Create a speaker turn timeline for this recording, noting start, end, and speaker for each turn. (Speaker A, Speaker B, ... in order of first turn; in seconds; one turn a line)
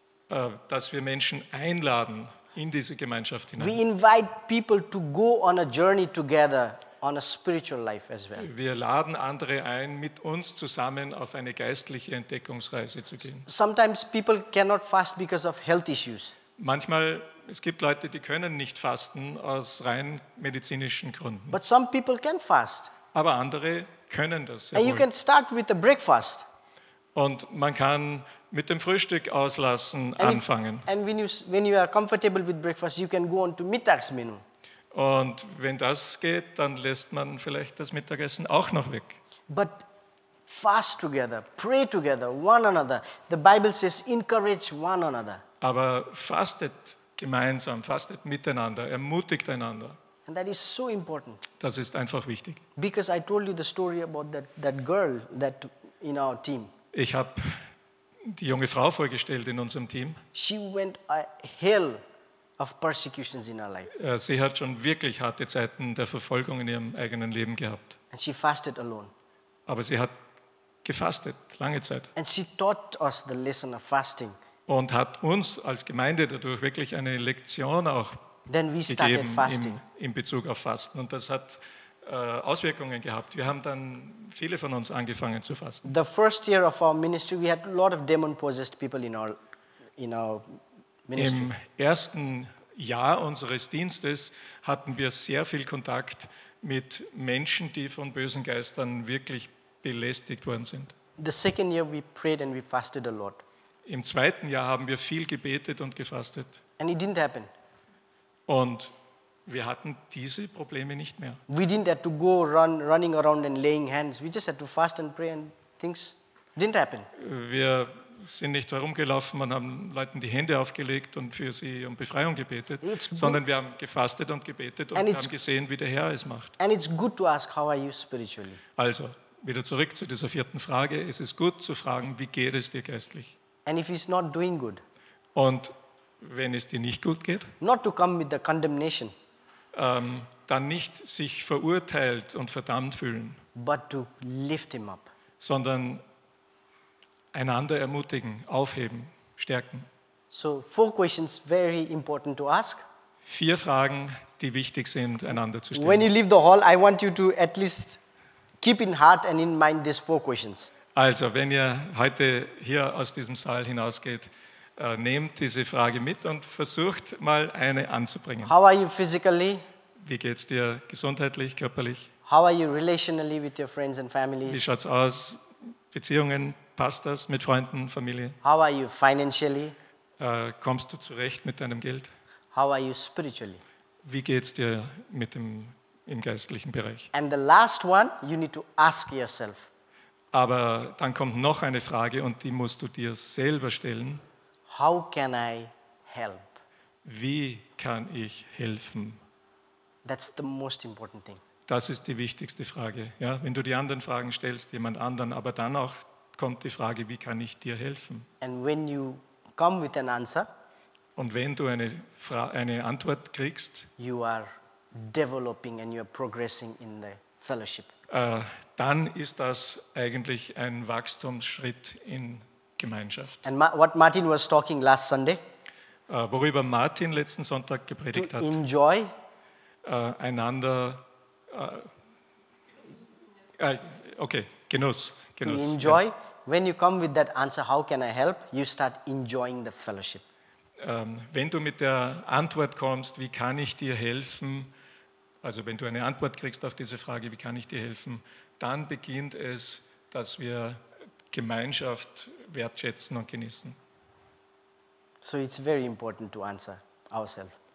Speaker A: 0.3-3.8
Speaker B: 3.6-8.5
Speaker A: 8.4-13.5
Speaker B: 13.5-16.3
Speaker A: 16.6-21.6
Speaker B: 21.5-22.9
Speaker A: 23.1-25.1
Speaker B: 24.8-26.5
Speaker A: 27.1-30.9
Speaker B: 30.2-34.4
Speaker A: 34.9-39.2
Speaker B: 39.5-39.9
Speaker B: 40.5-45.4
Speaker A: 45.6-50.0
Speaker B: 50.3-51.4
Speaker A: 51.6-52.6
Speaker B: 52.8-56.7
Speaker A: 56.9-57.6
Speaker A: 58.3-60.2
Speaker B: 60.3-62.0
Speaker B: 62.6-63.9
Speaker A: 64.0-68.0
Speaker B: 68.1-69.1
Speaker A: 69.7-70.1
Speaker A: 70.8-72.1
Speaker B: 72.2-74.3
Speaker A: 74.7-78.2
Speaker B: 78.5-79.8
Speaker A: 78.9-85.9
Speaker B: 85.8-89.4
Speaker B: 90.0-91.5
Speaker A: 91.2-100.9
Speaker B: 101.2-103.4
Speaker A: 103.9-106.6
Speaker B: 106.8-107.5
Speaker A: 108.5-108.9
Speaker A: 109.5-111.4
Speaker B: 111.5-117.1
Speaker A: 117.2-126.6
Speaker B: 122.8-123.4
Speaker B: 125.0-125.3
Speaker B: 126.6-128.6
Speaker A: 128.8-133.3
Speaker B: 133.7-134.8
Speaker A: 135.3-137.5
Speaker B: 137.6-139.1
Speaker A: 139.7-143.4
Speaker B: 143.6-145.1
Speaker A: 145.4-146.0
Speaker A: 147.3-149.9
Speaker B: 150.3-152.8
Speaker A: 153.2-156.1
Speaker B: 155.8-158.0
Speaker B: 158.6-160.7
Speaker A: 160.9-168.5
Speaker B: 168.4-169.6
Speaker A: 170.0-172.1
Speaker B: 172.3-174.7
Speaker A: 174.5-175.4
Speaker A: 175.9-178.4
Speaker B: 178.4-179.8
Speaker A: 180.2-182.1
Speaker B: 182.5-183.6
Speaker A: 184.0-187.1
Speaker B: 187.1-189.7
Speaker A: 190.3-194.2
Speaker B: 194.7-196.6
Speaker A: 197.1-199.2
Speaker B: 200.1-201.4
Speaker A: 201.7-208.3
Speaker B: 208.4-210.5
Speaker A: 211.2-213.9
Speaker B: 214.0-217.9
Speaker A: 218.1-223.4
Speaker B: 223.4-225.4
Speaker A: 226.1-228.6
Speaker B: 228.1-229.1
Speaker A: 229.8-231.9
Speaker A: 233.6-236.0
Speaker B: 235.4-240.2
Speaker A: 240.8-244.7
Speaker A: 245.4-253.8
Speaker B: 255.2-257.6